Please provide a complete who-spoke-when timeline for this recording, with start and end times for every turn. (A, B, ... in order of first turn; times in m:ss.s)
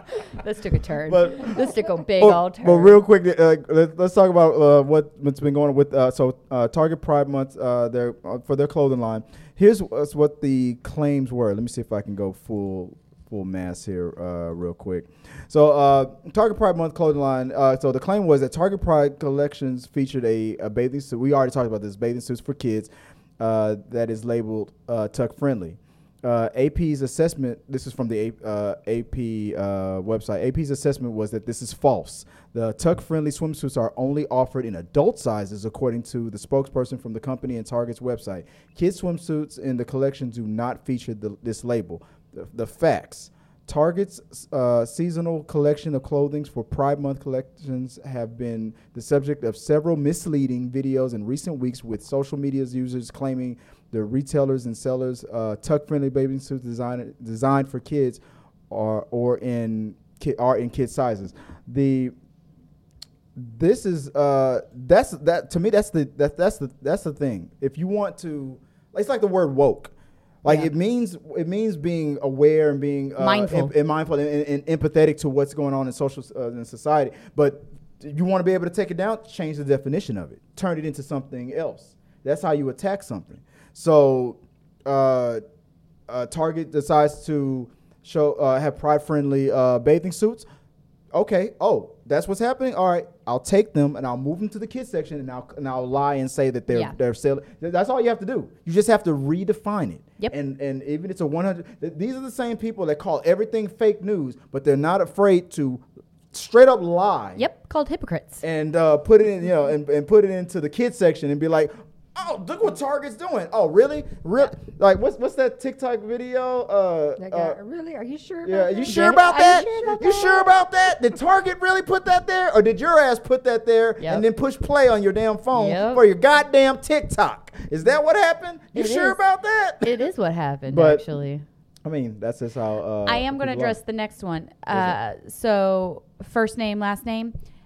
0:00.3-0:03.0 A
0:01.1-1:02.1 B
1:03.4-1:09.9 B
1:10.4-1:25.4 B
1:13.2-1:13.7 A
1:26.1-1:30.5 B
1:31.1-1:47.4 B
1:36.7-1:37.0 A
1:47.4-1:48.4 A
1:48.4-1:57.6 B
1:57.2-2:00.7 C
1:58.4-2:10.0 B
1:58.9-1:59.7 A
2:04.0-2:04.2 A
2:05.5-2:06.0 A
2:08.7-2:09.2 A
2:09.8-2:11.5 A
2:10.7-2:11.0 B
2:11.8-2:13.8 B
2:13.1-2:17.4 A
2:14.7-2:15.0 B